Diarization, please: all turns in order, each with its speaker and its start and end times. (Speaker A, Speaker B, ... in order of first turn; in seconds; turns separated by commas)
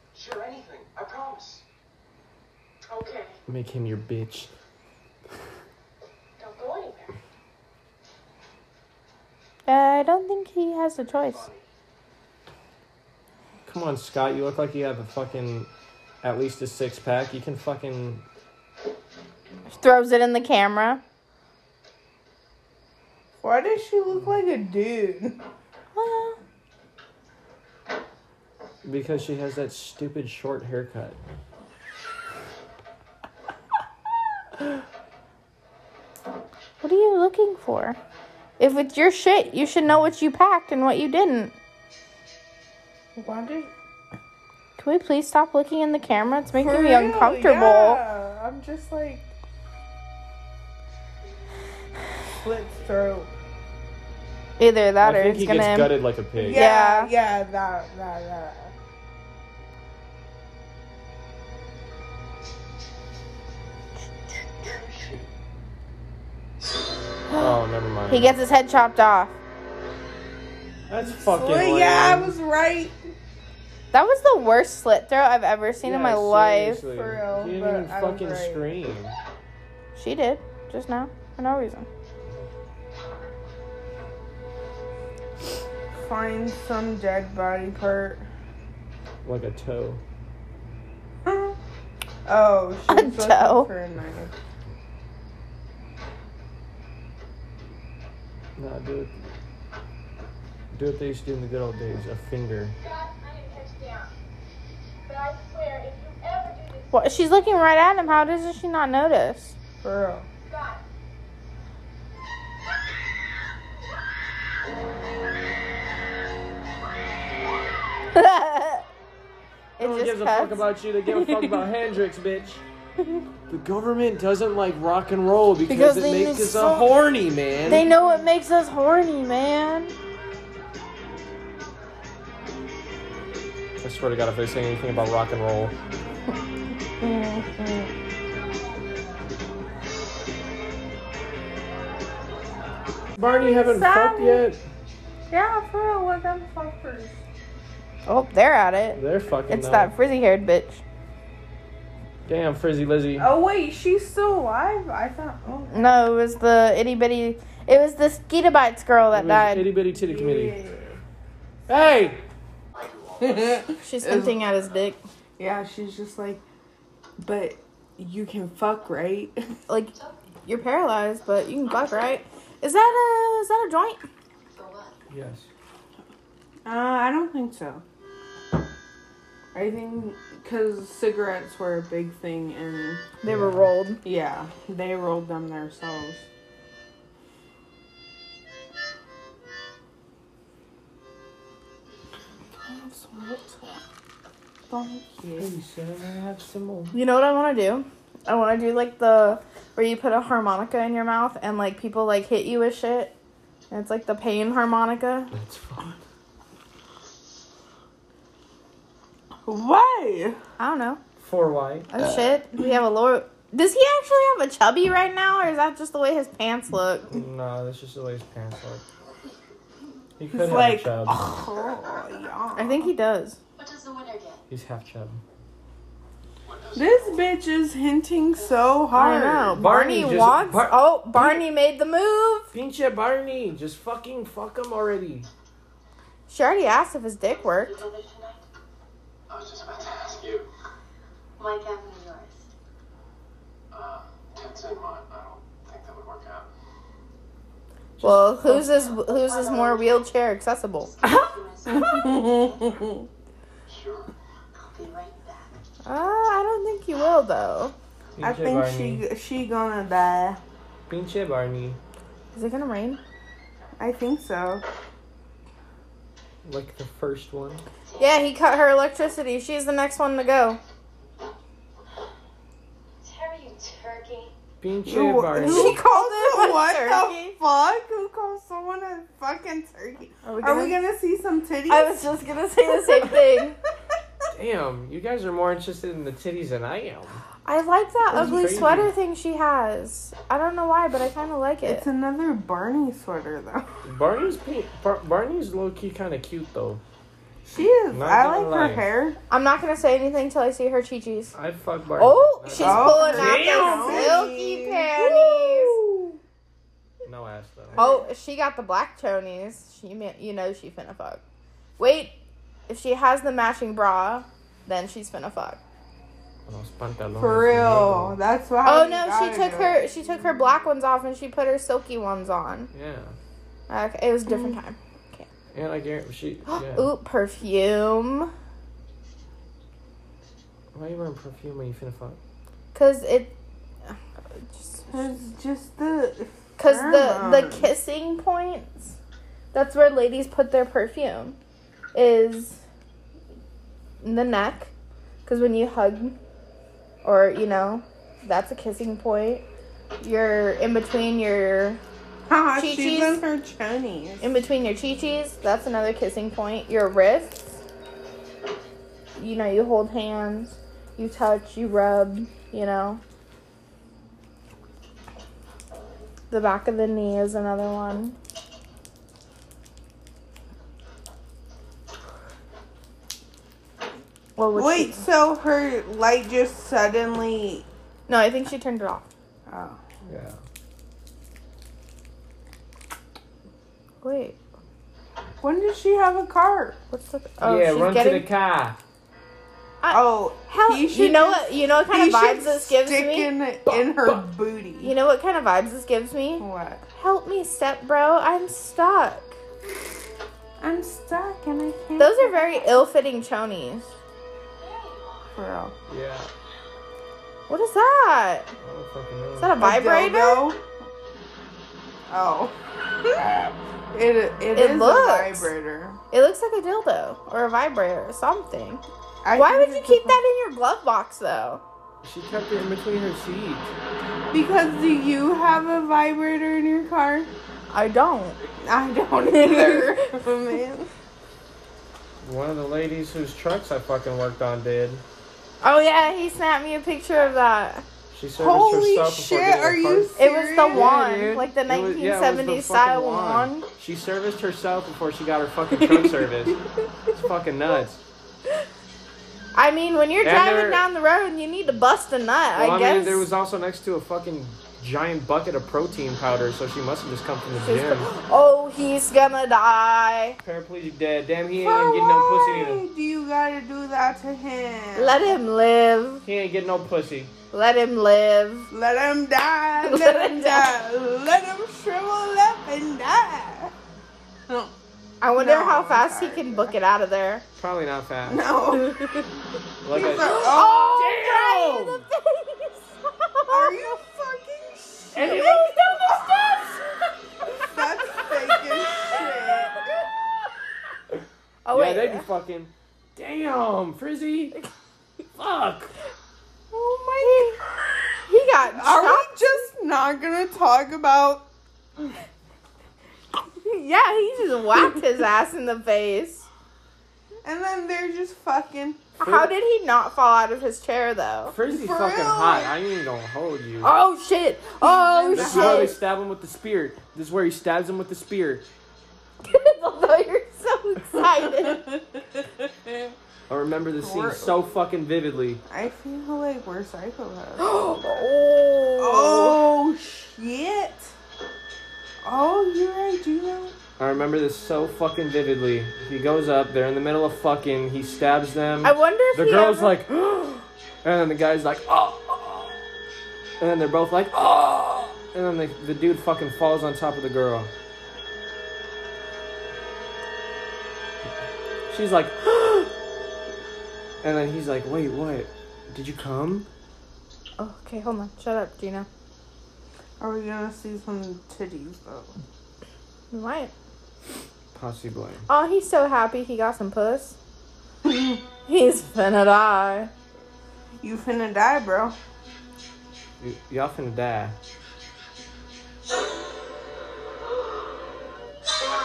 Speaker A: 0.1-1.6, Speaker B: 2.9-3.4, Speaker C: 3.5-4.5, Speaker B: 6.4-7.1, Speaker D: 9.7-11.5, Speaker A: 11.2-11.6, Speaker C: 13.7-15.7, Speaker C: 16.2-18.2, Speaker D: 19.7-21.0, Speaker E: 23.4-25.4, Speaker D: 25.9-26.4, Speaker C: 28.8-31.2, Speaker D: 36.8-38.0, Speaker D: 38.6-41.5, Speaker E: 43.1-43.7, Speaker D: 44.8-48.0, Speaker E: 46.5-49.3, Speaker E: 52.4-53.3, Speaker D: 54.6-57.1, Speaker C: 55.0-56.6, Speaker E: 56.4-58.7, Speaker C: 67.3-68.3, Speaker D: 68.1-69.3, Speaker C: 70.9-72.3, Speaker E: 71.0-73.0, Speaker D: 73.9-76.8, Speaker C: 75.8-79.1, Speaker E: 76.8-78.8, Speaker D: 79.9-81.9, Speaker E: 85.9-88.3, Speaker C: 89.2-90.0, Speaker E: 91.2-91.6, Speaker E: 92.2-94.3, Speaker D: 92.9-93.7, Speaker C: 98.6-99.2, Speaker C: 100.7-102.8, Speaker B: 102.8-104.1, Speaker B: 105.0-107.4, Speaker D: 106.9-109.5, Speaker E: 109.8-110.3, Speaker B: 110.4-110.8, Speaker D: 118.1-118.9, Speaker D: 119.8-121.6, Speaker C: 119.8-122.6, Speaker C: 123.5-127.8, Speaker D: 125.7-126.9, Speaker D: 127.7-129.9, Speaker E: 127.7-128.1, Speaker C: 133.8-135.7, Speaker E: 137.0-137.9, Speaker C: 143.2-144.6, Speaker E: 143.4-144.4, Speaker E: 145.3-147.2, Speaker D: 148.1-150.8, Speaker C: 148.9-149.9, Speaker C: 152.3-153.3, Speaker E: 153.2-155.8, Speaker D: 155.7-159.7, Speaker C: 159.1-160.6, Speaker E: 159.9-161.0, Speaker C: 161.7-162.2, Speaker E: 163.2-164.4, Speaker D: 163.8-165.0, Speaker E: 165.4-166.4, Speaker E: 167.2-169.4, Speaker D: 169.7-169.9, Speaker B: 169.9-170.2, Speaker D: 170.4-174.0, Speaker B: 174.5-175.0, Speaker C: 175.1-175.5, Speaker E: 176.6-177.8, Speaker E: 179.5-183.1, Speaker D: 183.2-184.0, Speaker C: 183.3-183.7, Speaker E: 184.0-186.2, Speaker E: 192.6-193.8, Speaker E: 194.7-195.5, Speaker C: 195.4-196.9, Speaker D: 196.9-203.1, Speaker D: 203.7-205.3, Speaker C: 205.3-206.0, Speaker E: 209.4-210.4, Speaker D: 210.6-211.0, Speaker C: 211.2-211.9, Speaker D: 211.9-217.2, Speaker C: 217.1-218.8, Speaker C: 220.2-221.2, Speaker E: 220.3-222.9, Speaker D: 222.6-223.4, Speaker B: 223.6-224.4, Speaker C: 224.5-225.2, Speaker A: 226.5-227.2, Speaker E: 226.7-229.6, Speaker D: 228.9-232.5, Speaker C: 229.5-231.4, Speaker C: 232.5-235.3, Speaker D: 236.3-237.8, Speaker B: 237.3-238.4, Speaker A: 239.3-240.5, Speaker B: 241.4-242.4, Speaker A: 243.7-246.5, Speaker D: 248.0-250.9, Speaker B: 248.5-250.1, Speaker B: 250.8-252.8, Speaker E: 251.7-253.1, Speaker A: 253.7-254.1, Speaker B: 254.5-255.6, Speaker D: 255.8-257.7, Speaker C: 258.1-259.0, Speaker E: 258.2-260.4, Speaker C: 260.9-261.8, Speaker D: 262.3-263.0, Speaker E: 263.8-264.6, Speaker C: 266.4-267.6, Speaker D: 268.0-270.6, Speaker B: 273.0-274.3, Speaker C: 274.6-275.8, Speaker E: 274.8-282.0, Speaker D: 275.4-277.3, Speaker D: 280.2-280.8, Speaker D: 281.7-283.6, Speaker E: 282.7-283.4, Speaker C: 284.3-287.2, Speaker D: 287.4-291.9, Speaker E: 288.1-288.9, Speaker C: 288.1-288.9, Speaker E: 291.6-293.7, Speaker C: 293.8-296.8, Speaker E: 297.4-299.2, Speaker C: 297.9-298.8, Speaker D: 299.3-301.3, Speaker C: 301.3-304.2, Speaker D: 302.0-305.8, Speaker E: 302.6-306.2, Speaker C: 307.0-307.8, Speaker E: 307.7-308.1, Speaker D: 307.8-311.2, Speaker D: 311.8-312.1, Speaker D: 312.7-315.6, Speaker C: 316.4-318.2, Speaker E: 317.2-319.8, Speaker D: 318.6-322.7, Speaker C: 322.7-323.1, Speaker D: 323.7-325.3, Speaker E: 324.3-324.6, Speaker C: 325.5-326.9, Speaker D: 326.5-328.3, Speaker C: 330.7-332.2, Speaker D: 332.7-333.3, Speaker D: 334.5-335.1, Speaker E: 334.9-337.7, Speaker D: 336.6-338.9, Speaker D: 339.5-341.4, Speaker D: 341.9-342.6, Speaker D: 344.0-344.7, Speaker D: 345.2-346.2, Speaker D: 347.0-349.4, Speaker D: 350.0-351.8, Speaker E: 352.3-354.3, Speaker D: 352.6-353.2, Speaker D: 354.2-357.4, Speaker D: 359.1-363.0, Speaker D: 366.3-368.2, Speaker D: 374.4-375.0, Speaker E: 374.5-377.7, Speaker D: 378.1-379.1, Speaker E: 379.5-379.8, Speaker C: 380.0-380.4, Speaker D: 384.0-384.4, Speaker E: 385.4-386.8, Speaker D: 386.9-388.3, Speaker C: 387.4-388.8, Speaker D: 389.8-393.3, Speaker E: 389.9-394.9, Speaker C: 393.7-394.2, Speaker D: 394.8-399.4, Speaker E: 396.4-396.8, Speaker E: 400.6-402.7, Speaker D: 402.0-403.9, Speaker B: 404.6-405.4, Speaker E: 405.3-405.7, Speaker C: 405.9-406.3, Speaker D: 407.5-408.5, Speaker C: 408.6-409.6, Speaker D: 409.4-410.5, Speaker E: 409.6-410.6, Speaker E: 412.1-413.3, Speaker E: 413.9-416.0, Speaker D: 414.5-415.5, Speaker D: 416.1-418.8, Speaker E: 419.2-420.2, Speaker D: 419.3-421.6, Speaker C: 422.0-423.7, Speaker E: 424.3-427.3, Speaker D: 427.7-428.4, Speaker E: 428.6-430.9, Speaker D: 429.2-430.1, Speaker C: 432.2-435.0, Speaker D: 435.6-437.8, Speaker C: 438.1-440.1, Speaker E: 438.4-440.9, Speaker D: 440.2-443.7, Speaker C: 440.7-448.0, Speaker D: 449.5-453.3, Speaker C: 450.2-450.8, Speaker C: 452.5-458.1, Speaker D: 457.6-460.4, Speaker C: 460.4-462.8, Speaker E: 461.5-465.4, Speaker D: 464.9-466.2, Speaker C: 466.2-467.3, Speaker D: 467.5-468.7, Speaker E: 468.7-473.7, Speaker D: 469.8-470.7, Speaker E: 474.5-474.7, Speaker D: 475.2-477.4, Speaker E: 475.3-476.8, Speaker C: 477.6-478.4, Speaker E: 478.2-479.3, Speaker C: 479.8-482.1, Speaker E: 479.9-481.0, Speaker D: 480.0-483.8, Speaker E: 483.5-485.9, Speaker C: 485.1-486.7, Speaker D: 485.2-487.7, Speaker E: 487.6-489.8, Speaker D: 491.6-492.3, Speaker C: 491.7-494.6, Speaker C: 495.3-495.9, Speaker E: 496.7-497.6, Speaker D: 497.2-497.6, Speaker D: 498.3-499.7, Speaker E: 498.6-501.4, Speaker D: 503.6-506.5, Speaker E: 507.4-509.1, Speaker D: 509.2-511.6, Speaker C: 509.2-509.5, Speaker C: 511.5-513.9, Speaker E: 511.7-512.7, Speaker D: 513.8-516.0, Speaker E: 514.8-516.0, Speaker C: 515.3-518.7, Speaker D: 519.4-521.9, Speaker E: 521.4-523.1, Speaker C: 523.5-525.6, Speaker E: 524.0-524.6, Speaker E: 525.7-528.0, Speaker D: 527.6-529.6, Speaker E: 529.0-531.1, Speaker E: 532.2-533.8, Speaker C: 534.0-542.7, Speaker D: 538.8-540.0, Speaker C: 543.6-547.7, Speaker C: 551.9-552.9, Speaker C: 554.2-556.7, Speaker D: 557.6-559.1, Speaker E: 560.2-562.3, Speaker D: 563.3-563.7, Speaker C: 564.7-565.5, Speaker D: 565.5-567.4, Speaker E: 568.0-568.4, Speaker D: 568.6-570.1, Speaker E: 571.0-572.1, Speaker C: 573.4-574.5